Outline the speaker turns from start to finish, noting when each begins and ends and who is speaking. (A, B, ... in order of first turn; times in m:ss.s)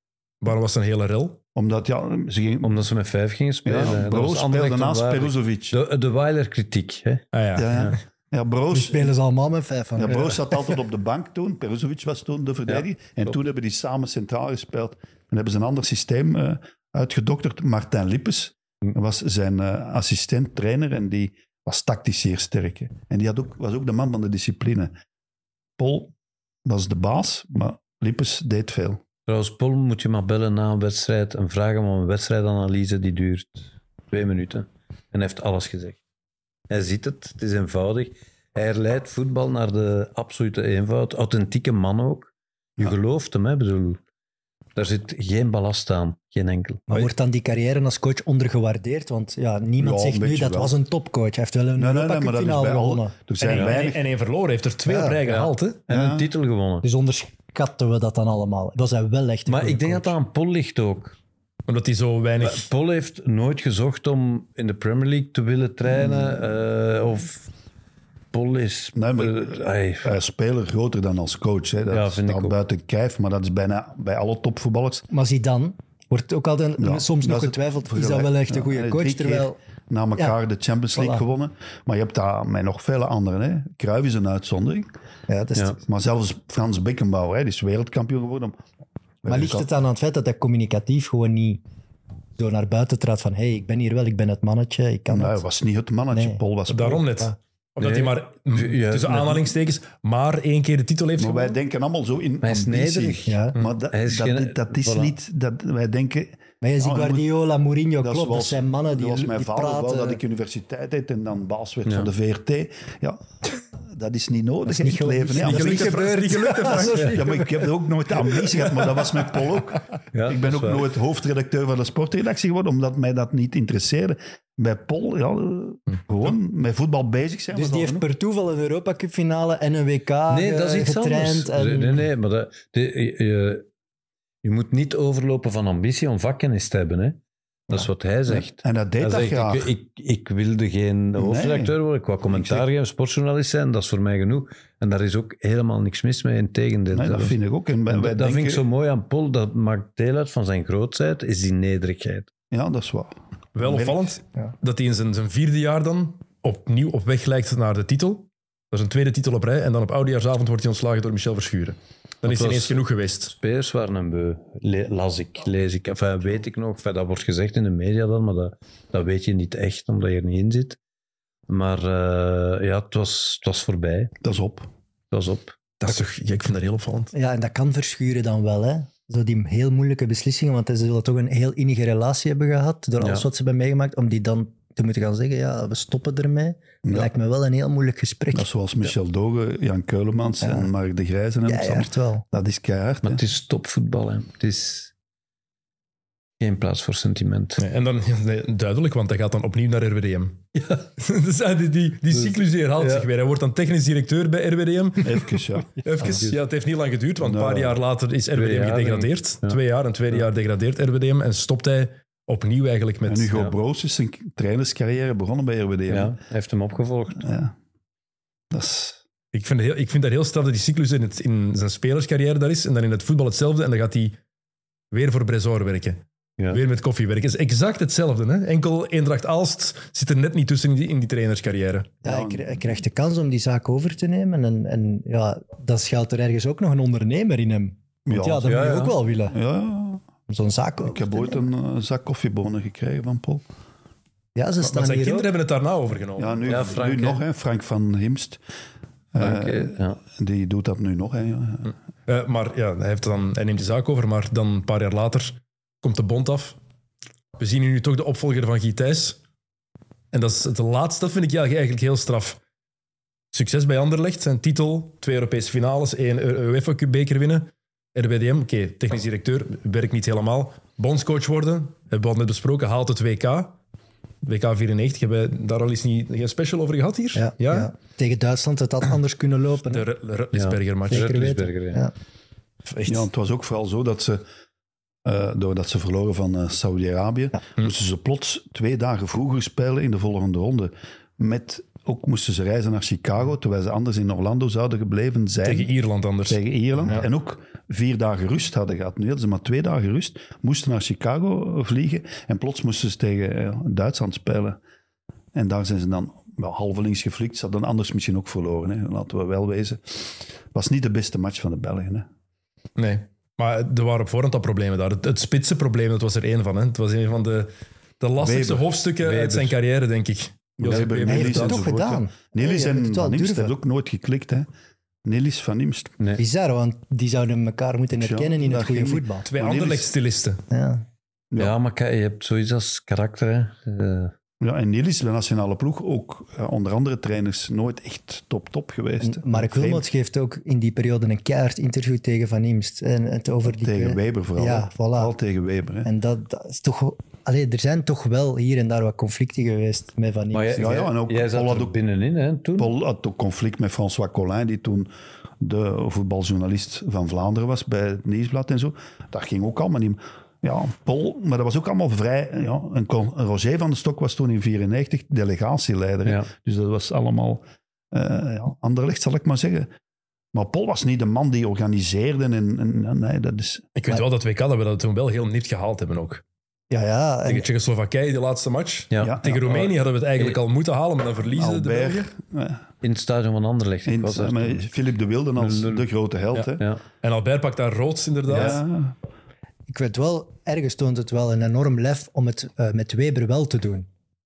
0:00.4-0:01.4 A
0:01.6-0:02.8 B
0:02.6-0:08.0 C
0:03.6-0:05.8 B
0:07.3-0:07.7 A
0:07.6-0:09.2 B
0:08.7-0:10.7 D
0:10.0-0:24.9 B
0:12.7-0:13.3 C
0:25.8-0:26.1 B
0:26.7-0:29.0 B
0:29.3-0:36.0 C
0:36.7-0:44.0 C
0:44.8-0:47.1 C
0:46.9-0:53.2 D
0:49.8-0:50.8 B
0:51.8-0:54.0 B
0:53.4-0:55.8 A
0:54.9-0:55.2 D
0:55.3-0:56.9 C
0:55.9-0:56.3 B
0:56.8-1:00.1 D
0:59.5-1:01.2 C
1:01.7-1:02.7 A
1:02.4-1:07.5 C
1:05.9-1:06.4 B
1:08.3-1:10.2 C
1:09.0-1:15.1 B
1:11.9-1:12.6 C
1:15.1-1:19.6 D
1:16.8-1:24.9 B
1:21.0-1:21.2 D
1:25.3-1:25.8 D
1:25.9-1:28.6 B
1:29.2-1:29.7 B
1:29.3-1:31.6 D
1:32.4-1:35.4 D
1:35.1-1:37.3 B
1:36.1-1:36.4 D
1:36.7-1:41.6 A
1:37.8-1:39.5 C
1:41.2-1:47.3 B
1:42.4-1:45.2 C
1:43.3-1:43.6 D
1:46.6-1:50.2 D
1:48.0-1:56.2 B
1:54.7-1:57.7 D
1:55.4-1:57.2 A
1:57.0-2:08.1 B
2:00.1-2:00.8 C
2:07.5-2:12.0 D
2:10.3-2:13.7 C
2:14.4-2:17.2 C
2:17.7-2:27.4 C
2:18.3-2:19.7 B
2:21.2-2:21.8 B
2:22.3-2:22.7 B
2:26.9-2:28.7 B
2:27.9-2:32.3 C
2:32.5-2:34.2 B
2:33.6-2:43.3 A
2:42.2-2:50.8 C
2:51.5-2:54.2 C
2:54.2-2:54.7 B
2:55.1-2:55.9 C
2:55.8-2:57.1 A
2:57.1-3:08.5 D
3:03.0-3:03.3 C
3:06.8-3:07.1 B
3:08.3-3:13.2 B
3:10.4-3:10.7 D
3:11.5-3:12.2 D
3:13.0-3:14.9 C
3:16.4-3:17.6 C
3:17.6-3:20.5 A
3:20.6-3:20.8 C
3:21.0-3:33.4 A
3:22.1-3:23.1 C
3:25.0-3:26.2 B
3:26.0-3:26.4 C
3:27.2-3:27.8 B
3:28.4-3:29.6 C
3:33.1-3:36.2 B
3:35.9-3:37.3 C
3:37.2-3:37.5 B
3:38.5-3:39.0 B
3:39.3-3:44.2 A
3:44.9-3:51.9 A
3:52.0-3:59.4 D
3:52.0-3:52.8 B
3:58.1-3:58.7 B
3:58.4-3:59.0 C
3:59.3-4:00.0 B
4:00.3-4:01.4 D
4:00.8-4:03.4 B
4:04.4-4:05.3 D
4:04.6-4:06.4 A
4:06.2-4:08.4 B
4:06.5-4:07.2 C
4:09.1-4:11.7 B
4:09.2-4:10.0 C
4:12.1-4:16.6 A
4:17.4-4:19.2 A
4:20.1-4:22.4 A
4:23.3-4:33.6 A
4:34.2-4:37.7 A
4:37.2-4:39.9 D
4:39.7-4:41.1 A
4:40.3-4:41.8 C
4:40.9-4:41.9 D
4:42.7-4:43.1 A
4:42.9-4:44.2 B
4:45.0-4:55.7 B
4:55.4-4:57.0 A
4:56.3-5:04.6 B
5:05.3-5:12.1 B
5:12.8-5:21.7 A
5:18.2-5:18.7 B
5:19.0-5:19.6 C
5:20.6-5:24.5 B
5:21.1-5:23.5 D
5:25.0-5:26.0 B
5:26.2-5:29.3 D
5:27.9-5:29.9 B
5:29.2-5:30.4 A
5:30.5-5:30.8 D
5:31.4-5:34.1 C
5:34.4-5:39.9 B
5:39.0-5:45.1 D
5:43.4-5:45.9 B
5:45.8-5:50.8 D
5:50.3-5:52.7 C
5:50.6-5:51.8 B
5:52.6-5:54.9 B
5:55.4-6:09.7 B
6:10.3-6:13.7 B
6:13.8-6:16.2 A
6:16.7-6:17.5 D
6:17.3-6:22.1 A
6:18.9-6:20.4 C
6:19.0-6:19.7 B
6:21.3-6:22.6 B
6:22.8-6:24.6 C
6:23.9-6:26.7 B
6:25.4-6:25.8 C
6:26.3-6:28.6 A
6:28.3-6:29.0 B
6:29.7-6:33.9 D